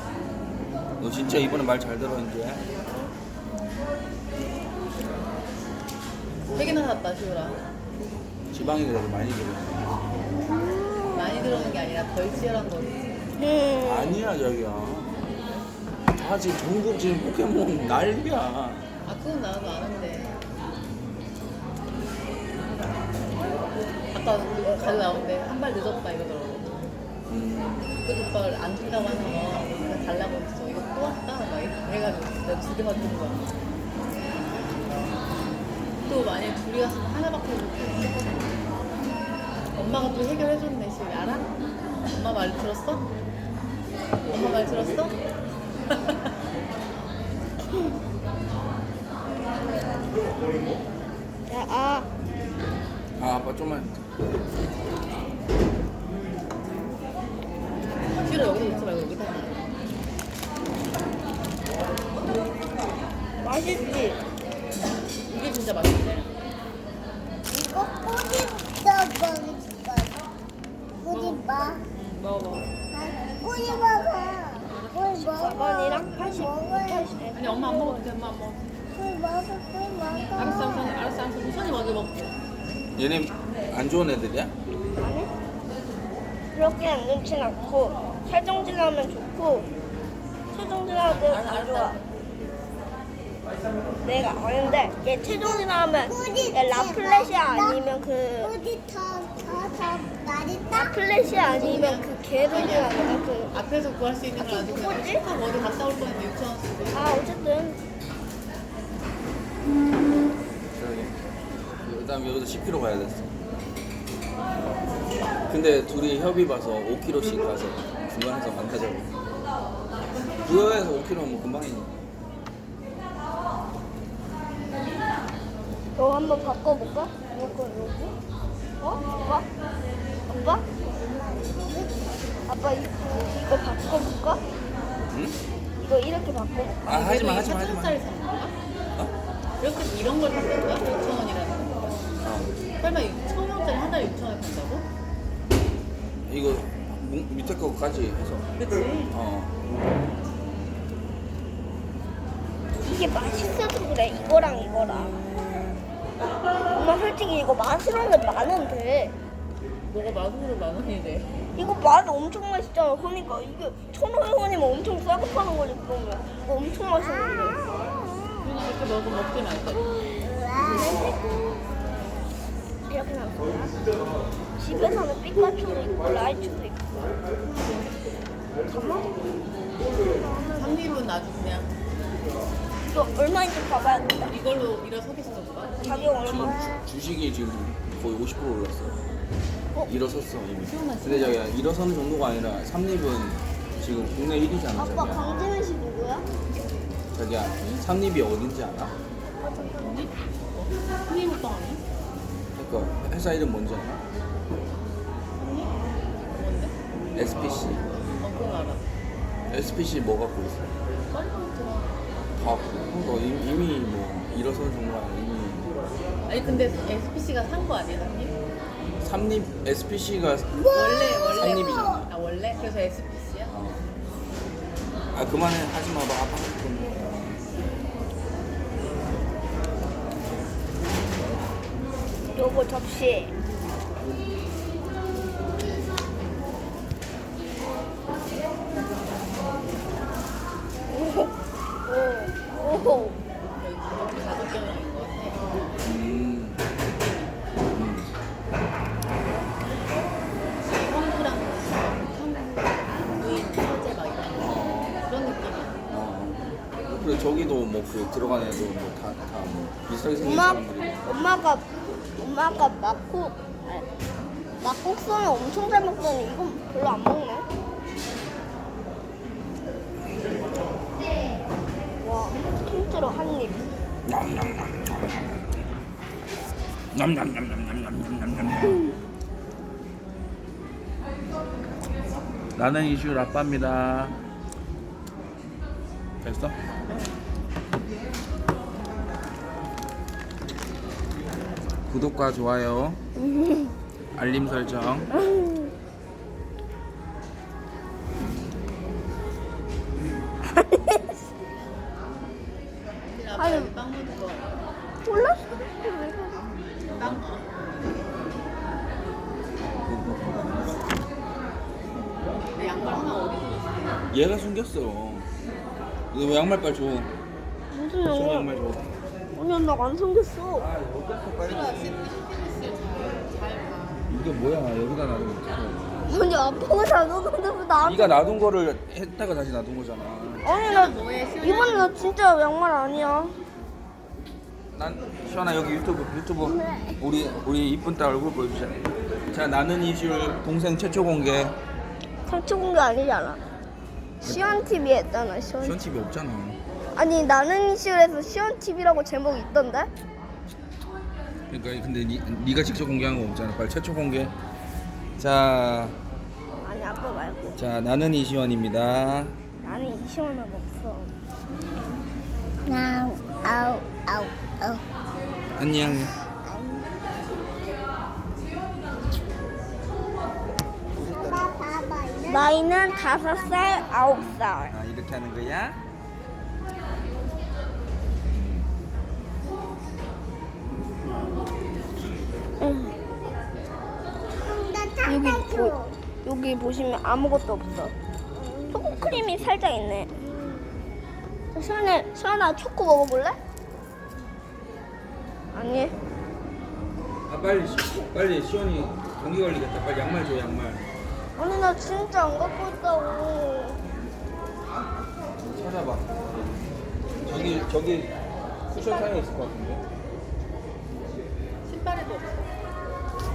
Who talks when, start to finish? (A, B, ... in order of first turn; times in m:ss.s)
0:01.0-0:02.6 A
0:06.5-0:07.6 B
0:08.5-0:09.9 A
0:10.3-0:11.5 C
0:11.1-0:13.1 B
0:13.4-0:14.2 C
0:13.8-0:15.1 A
0:16.1-0:18.8 A
0:19.0-0:20.4 B
0:24.1-0:26.8 B
0:27.3-0:28.0 A
0:28.0-0:33.4 B
0:36.0-0:38.5 B
0:39.7-0:41.5 B
0:42.1-0:43.0 B
0:44.3-0:45.1 B
0:51.5-0:52.1 C
0:53.2-0:53.9 A
0:58.1-0:59.6 B
1:03.4-1:04.2 C
1:05.2-1:06.3 B
1:07.5-1:10.2 D
1:11.0-1:11.8 D
1:11.1-1:12.7 B
1:12.9-1:17.1 D
1:14.7-1:15.0 B
1:15.1-1:18.1 C
1:17.3-1:18.7 B
1:18.9-1:20.9 D
1:20.3-1:22.3 B
1:22.9-1:24.5 A
1:25.0-1:25.3 C
1:26.5-1:29.7 C
1:30.5-1:32.0 C
1:31.0-1:32.0 B
1:34.0-1:38.5 C
1:35.4-1:37.8 D
1:38.4-1:41.0 D
1:40.7-1:43.5 C
1:41.4-1:47.2 B
1:44.4-1:45.2 C
1:46.9-1:47.8 C
1:50.8-1:51.2 A
1:51.8-1:53.3 A
1:55.5-1:59.1 A
2:00.4-2:01.9 A
2:06.0-2:08.1 C
2:08.8-2:09.5 C
2:10.3-2:10.6 C
2:11.1-2:12.2 D
2:12.5-2:14.4 C
2:15.1-2:15.4 A
2:15.8-2:17.0 C
2:16.9-2:18.0 A
2:16.9-2:18.5 B
2:19.6-2:22.0 B
2:22.2-2:22.5 A
2:22.8-2:24.8 B
2:26.2-2:28.5 A
2:28.6-2:29.1 B
2:29.1-2:29.5 A
2:32.8-2:35.1 C
2:34.1-2:35.9 A
2:36.7-2:39.2 C
2:39.9-2:41.3 B
2:41.5-2:48.5 C
2:48.4-2:49.9 B
2:50.2-2:51.0 D
2:50.6-2:52.1 C
2:52.9-2:53.8 C
2:54.6-2:56.9 C
2:58.7-3:00.9 C
3:00.5-3:01.7 B
3:02.9-3:04.4 C
3:04.3-3:06.1 B
3:05.8-3:06.7 C
3:06.2-3:09.0 A
3:09.9-3:15.2 A
3:10.6-3:11.4 B
3:14.7-3:16.3 C
3:17.1-3:18.9 A
3:19.6-3:21.8 B
3:22.5-3:24.0 A
3:25.4-3:26.7 B
3:27.1-3:27.9 A
3:28.2-3:28.8 B
3:29.5-3:30.7 A
3:31.1-3:32.0 B
3:32.4-3:35.7 A
3:36.3-3:38.3 B
3:39.0-3:42.1 A
3:40.7-3:43.5 B
3:43.5-3:43.8 A
3:45.1-3:47.3 A
3:52.3-3:53.3 C
4:00.9-4:01.3 C
4:01.8-4:03.2 C
4:03.6-4:05.7 B
4:05.8-4:06.6 A
4:06.8-4:07.4 B
4:07.7-4:08.1 A
4:10.7-4:15.8 B
4:14.4-4:15.0 A
4:15.9-4:21.0 A
4:20.2-4:21.7 C
4:22.2-4:23.9 C
4:24.6-4:27.4 C
4:32.0-4:33.7 C
4:34.0-4:35.4 A
4:36.9-4:38.8 A
4:42.6-4:44.2 A
4:46.2-4:46.6 A
4:51.9-4:53.0 A
4:53.2-4:53.7 C
4:54.1-4:55.1 A
4:55.1-4:55.7 C
5:00.5-5:01.1 C
5:03.0-5:04.5 B
5:03.3-5:03.7 C
5:05.0-5:06.4 C
5:06.8-5:07.2 A
5:06.9-5:07.7 B
5:09.8-5:10.8 A
5:12.5-5:14.0 B
5:14.1-5:15.3 A
5:16.1-5:17.1 A
5:17.7-5:18.5 C
5:18.0-5:18.8 A
5:19.3-5:20.7 C
5:20.5-5:21.9 A
5:21.4-5:24.0 B
5:24.1-5:26.0 A
5:26.1-5:28.2 C
5:27.8-5:30.4 A
5:30.4-5:33.4 C
5:30.6-5:31.9 B
5:34.7-5:38.7 A
5:36.4-5:37.0 C
5:39.3-5:41.6 A
5:42.2-5:43.4 C
5:44.2-5:44.6 A
5:44.2-5:45.9 C
5:45.6-5:46.6 A
5:47.0-5:49.9 C
5:51.5-5:54.3 A
5:55.2-5:56.0 A
5:56.6-5:57.6 C
5:57.5-5:59.4 A
5:59.6-6:01.1 C
6:02.6-6:04.8 D
6:05.6-6:06.2 A
6:06.4-6:06.8 D
6:11.0-6:11.5 A
6:11.0-6:12.5 D
6:12.2-6:14.8 C
6:14.7-6:15.8 A
6:18.4-6:18.6 A
6:22.6-6:23.0 C
6:24.4-6:26.0 D
6:25.0-6:30.7 C
6:28.7-6:29.5 A
6:31.5-6:33.4 C
6:35.5-6:36.0 C
6:37.3-6:40.9 A
6:41.4-6:43.8 C
6:45.4-6:46.2 A
6:47.2-6:48.1 A
6:48.7-6:49.2 B
6:48.7-6:49.8 A
6:51.6-6:52.5 B